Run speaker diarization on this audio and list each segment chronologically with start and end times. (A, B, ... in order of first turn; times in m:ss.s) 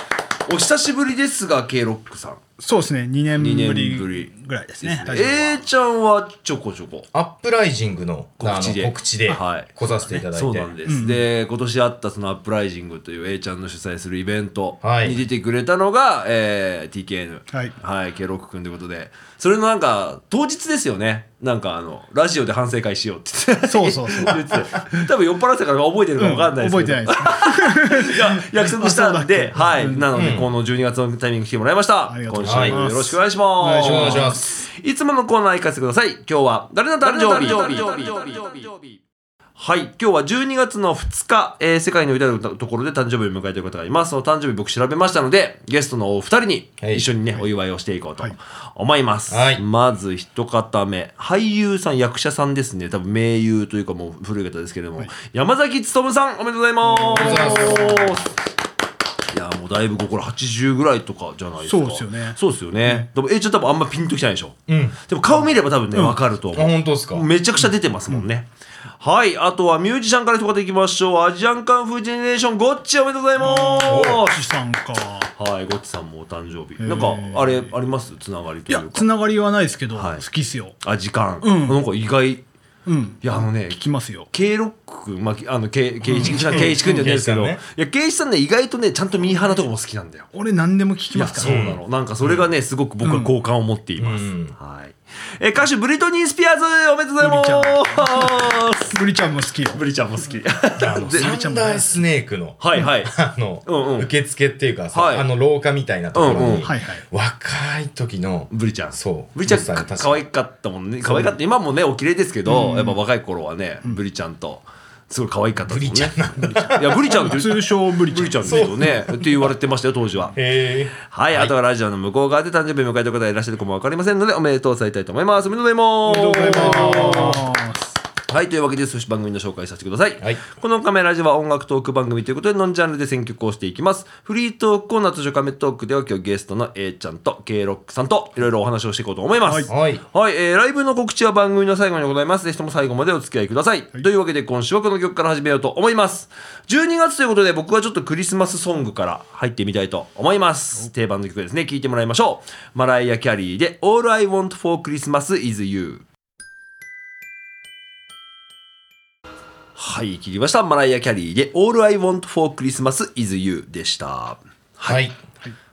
0:00.4-0:02.4 A
0:02.6-0:05.6 B
0:03.4-0:04.3 A
0:04.8-0:07.1 A
0:07.1-0:10.7 C
0:08.4-0:39.0 A
0:10.8-0:11.2 B
0:14.8-0:15.2 C
0:23.6-0:25.1 B
0:26.2-0:30.1 B
0:30.1-0:30.5 C
0:32.1-0:34.5 B
0:32.4-0:32.8 C
0:33.6-0:34.5 C
0:37.2-0:37.8 B
0:39.6-0:58.3 A
0:46.8-0:47.1 C
0:49.3-0:49.6 C
0:56.9-0:58.0 B
0:57.1-0:58.0 C
0:59.3-1:08.5 A
1:01.6-1:03.1 B
1:04.7-1:05.0 C
1:05.9-1:06.2 B
1:06.5-1:07.3 C
1:09.0-1:14.3 A
1:13.4-1:15.3 B
1:13.8-1:14.2 C
1:15.4-1:19.0 A
1:16.8-1:17.7 B
1:18.7-1:20.8 B
1:19.9-1:20.2 A
1:20.8-1:22.4 A
1:21.4-1:21.8 B
1:22.8-1:24.3 B
1:23.2-1:23.8 A
1:24.3-1:30.3 A
1:26.1-1:27.0 B
1:26.2-1:27.6 C
1:30.3-1:31.6 B
1:31.1-1:39.0 A
1:31.4-1:32.5 C
1:33.0-1:33.3 B
1:34.0-1:34.5 C
1:37.2-1:39.8 B
1:39.7-1:41.4 A
1:40.8-1:50.2 C
1:41.0-1:41.9 B
1:42.6-1:43.1 A
1:43.6-1:44.1 A
1:44.9-1:45.2 A
1:46.1-1:46.7 A
1:46.6-1:47.0 B
1:48.5-2:00.4 A
1:51.0-1:51.4 C
1:52.5-1:53.0 B
1:55.7-1:57.3 C
1:56.9-1:58.7 B
1:58.4-1:59.5 C
2:00.3-2:01.5 C
2:01.1-2:07.3 A
2:06.0-2:07.9 B
2:06.4-2:07.5 C
2:08.3-2:36.0 A
2:19.7-2:20.0 C
2:39.8-2:45.0 A
2:44.8-2:45.2 C